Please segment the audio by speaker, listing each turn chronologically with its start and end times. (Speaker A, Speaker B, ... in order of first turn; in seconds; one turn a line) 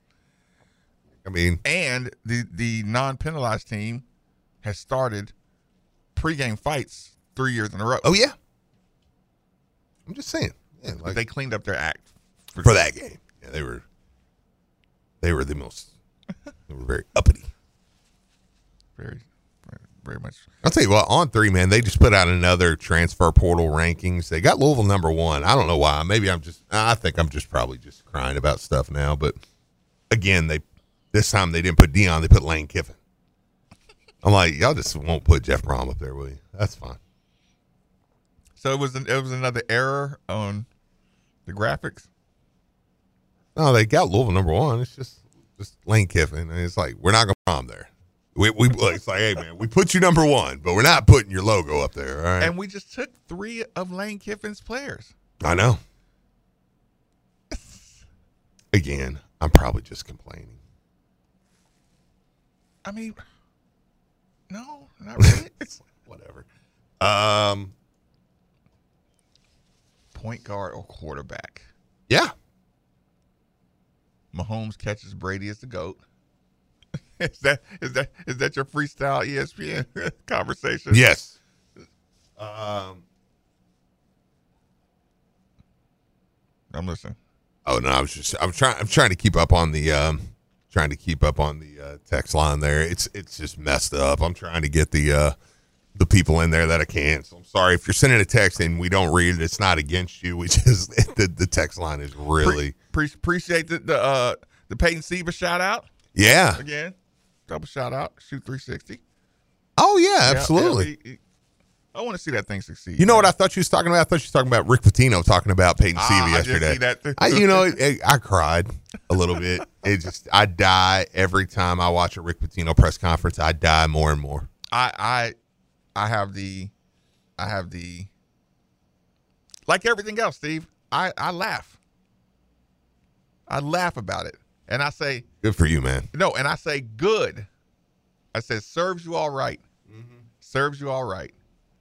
Speaker A: 1.2-1.6
Speaker B: 1.6-4.0
Speaker B: 4.6-5.3
Speaker B: 6.1-8.1
Speaker A: 8.0-8.3
Speaker A: 10.1-11.2
Speaker B: 10.9-12.8
Speaker A: 12.6-13.8
Speaker A: 15.2-15.9
Speaker A: 16.7-17.5
Speaker B: 19.0-20.5
Speaker A: 20.6-29.4
Speaker A: 30.1-33.0
Speaker A: 34.2-37.0
Speaker B: 38.6-40.6
Speaker B: 41.5-42.1
Speaker A: 43.5-52.5
Speaker B: 52.4-55.1
Speaker A: 55.4-55.8
Speaker B: 57.5-57.8
Speaker A: 58.7-60.6
Speaker B: 62.8-63.2
Speaker B: 64.5-65.7
Speaker A: 65.2-66.5
Speaker A: 67.0-67.7
Speaker B: 70.1-71.7
Speaker B: 74.3-76.0
Speaker B: 77.2-81.1
Speaker A: 80.9-81.3
Speaker A: 82.4-83.0
Speaker B: 86.7-87.2
Speaker A: 87.7-95.3
Speaker A: 95.9-102.7
Speaker B: 102.4-105.9
Speaker A: 106.1-106.6
Speaker B: 106.5-106.9
Speaker B: 107.5-109.0
Speaker A: 109.8-110.9
Speaker B: 110.2-111.2
Speaker B: 111.9-113.3
Speaker A: 113.0-124.5
Speaker B: 115.9-117.8
Speaker B: 124.7-125.3
Speaker B: 125.9-126.7
Speaker B: 127.4-128.1
Speaker B: 129.7-131.7
Speaker B: 133.5-135.2
Speaker A: 135.4-136.1
Speaker B: 136.1-137.5
Speaker B: 138.3-139.6
Speaker A: 139.9-140.2
Speaker B: 140.4-141.3